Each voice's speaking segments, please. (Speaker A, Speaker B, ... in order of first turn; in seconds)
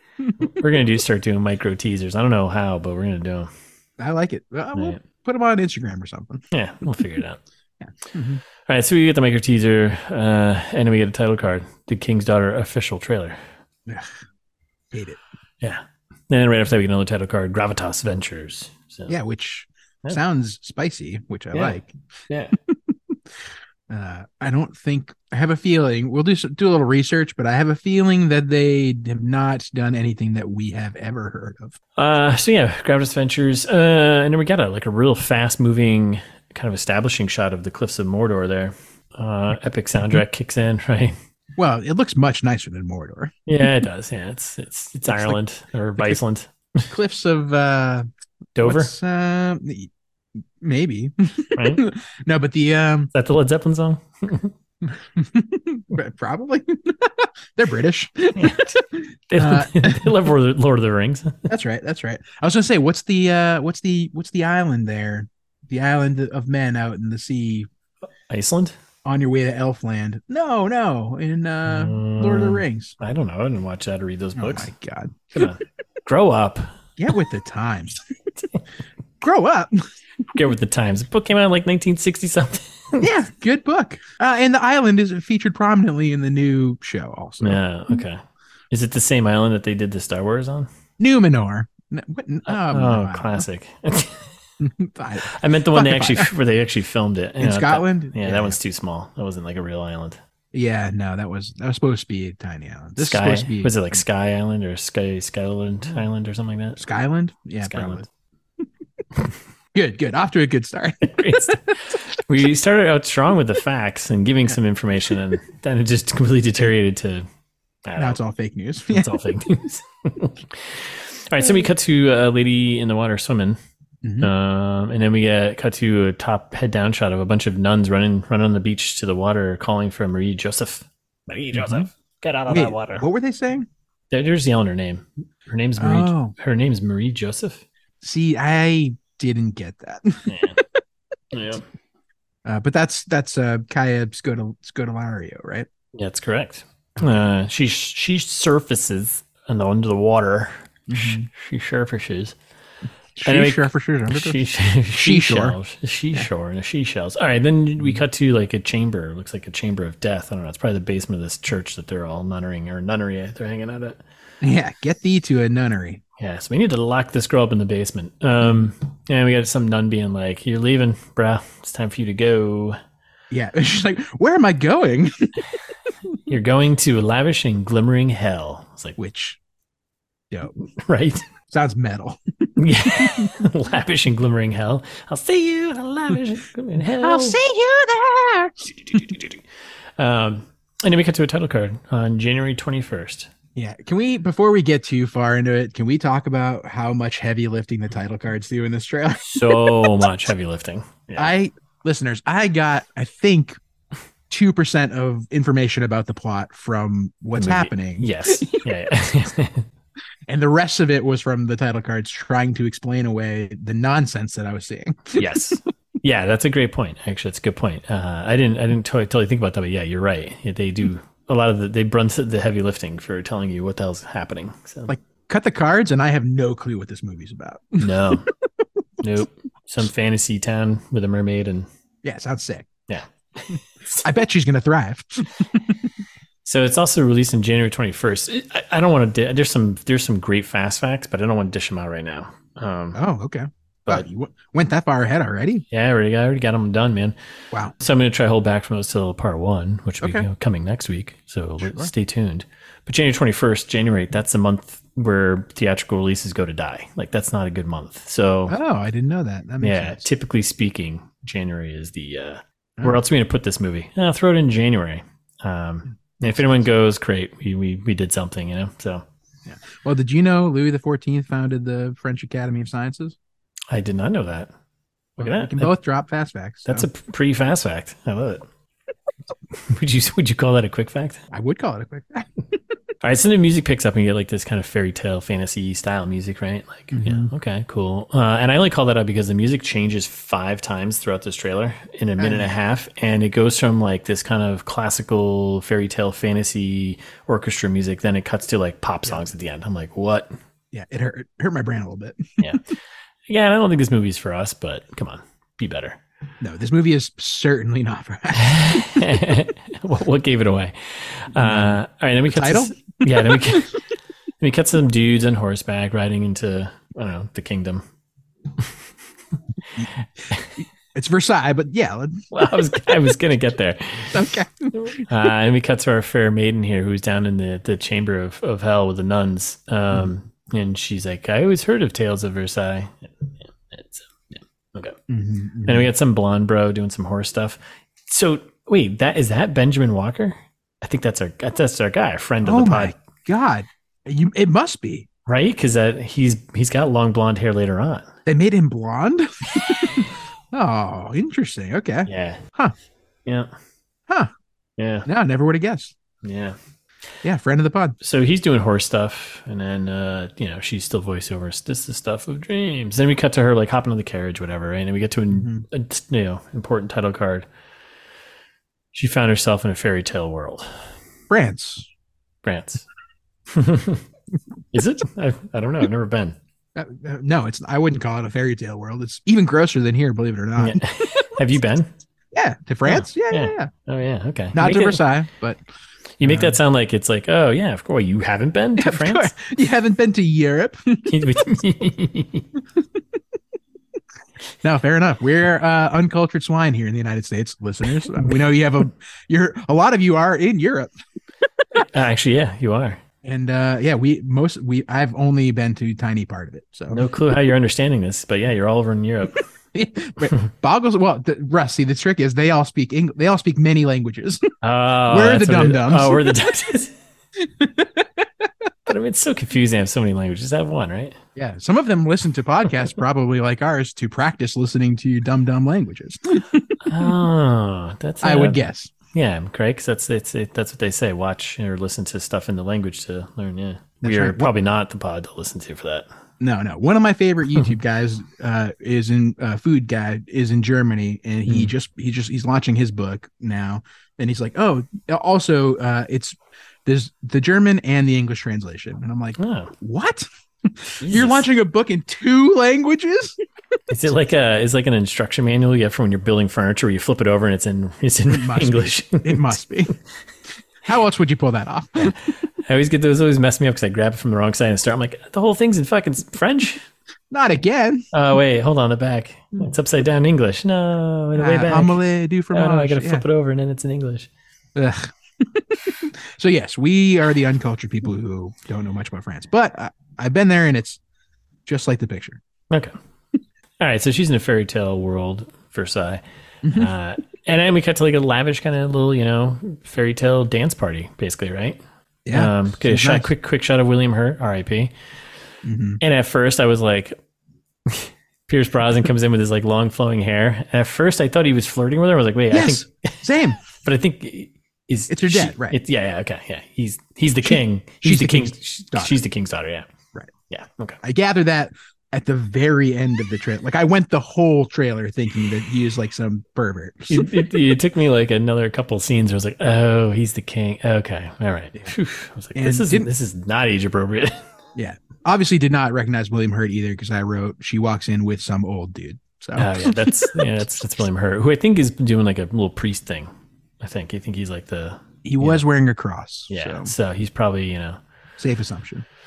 Speaker A: 0.2-0.5, 4.0-6.4, 7.8-8.4, 13.9-14.2, 14.9-15.2, 19.1-21.9, 22.7-23.2, 23.9-31.8, 41.6-43.3, 45.1-45.4, 46.9-48.1, 48.6-49.9, 50.6-53.1, 54.8-60.2, 61.5-67.7, 69.0-73.0, 74.4-75.5, 77.0-78.0, 79.2-79.8, 83.0-87.6, 91.0-93.5, 94.6-96.3, 97.4-98.6, 100.5-104.0, 106.8-108.1, 109.7-111.6, 118.0-119.1, 124.0-124.3, 131.5-131.9, 132.5-133.7, 135.8-136.3, 138.0-140.8, 142.4-145.7, 150.9-151.3, 153.2-154.4, 154.9-155.6, 164.4-166.0, 173.3-175.3, 179.0-179.4, 181.5-183.3, 187.0-189.2, 193.6-200.1, 201.2-203.6, 204.3-208.6, 210.3-215.4, 224.9-228.3, 232.0-232.7, 233.5-235.9, 242.9-245.7, 250.0-250.3, 251.6-251.9, 258.5-260.1, 266.2-266.5, 269.5-273.2, 275.2-276.9, 281.3-282.3, 286.9-287.3, 292.2-292.5, 300.7-302.4, 306.4-309.2, 311.4-313.7, 320.6-322.3, 324.1-325.1, 335.1-335.9, 342.4-345.1, 348.3-352.7, 355.1-355.9, 357.2-358.0, 365.3-365.6, 371.3-371.9, 376.8-381.4, 382.3-383.7, 384.5-385.6, 386.2-386.6, 388.8-391.2, 392.8-393.0, 394.6-400.9, 403.2-407.1, 409.7-414.5, 415.1-416.4, 417.4-418.7, 421.4-427.1, 428.2-428.9, 434.0-434.5, 436.4-453.4, 458.3-459.9, 460.8-462.2, 467.3-468.1, 471.4-473.2, 474.8-481.0, 481.7-482.4, 486.6-486.9, 492.3-493.3, 495.6-496.0, 502.5-503.6, 505.1-505.8, 507.4-509.1, 511.0-517.3, 522.6-523.1, 524.8-530.4, 535.2-536.9, 538.4-539.1
Speaker B: 0.4-3.5, 4.7-5.0, 6.5-7.4, 8.7-13.4, 15.6-19.1, 21.5-21.8, 22.3-22.6, 32.0-41.2, 43.5-46.9, 48.6-48.9, 51.5-51.8, 53.1-54.5, 58.4-61.5, 68.3-68.7, 71.7-74.7, 75.3-76.8, 80.3-83.1, 87.4-90.7, 92.5-94.3, 95.2-100.2, 103.0-106.8, 107.6-108.0, 111.0-117.3, 117.8-118.2, 118.9-123.6, 124.2-133.1, 134.1-137.6, 140.3-140.6, 141.3-141.7, 145.9-152.4, 153.2-164.0, 166.2-172.8, 176.3-179.0, 180.6-181.2, 182.6-187.4, 188.8-189.4, 190.0-193.3, 199.2-201.3, 207.4-209.7, 215.2-224.9, 227.8-228.3, 229.0-231.7, 232.9-234.1, 236.4-243.0, 245.7-247.2, 247.8-258.6, 259.6-269.1, 273.7-274.5, 275.2-275.7, 276.7-278.4, 279.6-281.2, 283.0-300.4, 303.3-306.0, 308.3-313.7, 314.4-317.8, 320.3-320.6, 322.3-335.0, 335.7-342.9, 345.3-348.1, 352.1-352.4, 354.8-355.1, 356.2-356.6, 358.0-367.5, 368.9-370.8, 372.4-372.9, 373.5-374.0, 374.7-376.4, 380.6-381.9, 382.9-385.0, 386.2-389.3, 391.1-392.5, 401.8-403.0, 406.9-409.4, 414.6-416.9, 418.9-421.2, 426.8-428.6, 429.1-436.1, 449.4-449.7, 451.0-451.5, 453.9-459.6, 462.0-466.9, 468.1-472.0, 472.5-474.3, 483.8-491.8, 492.3-494.9, 496.0-497.2, 497.9-509.9, 510.5-511.0, 517.1-524.5, 529.6-533.3, 533.8-535.6, 536.5-538.0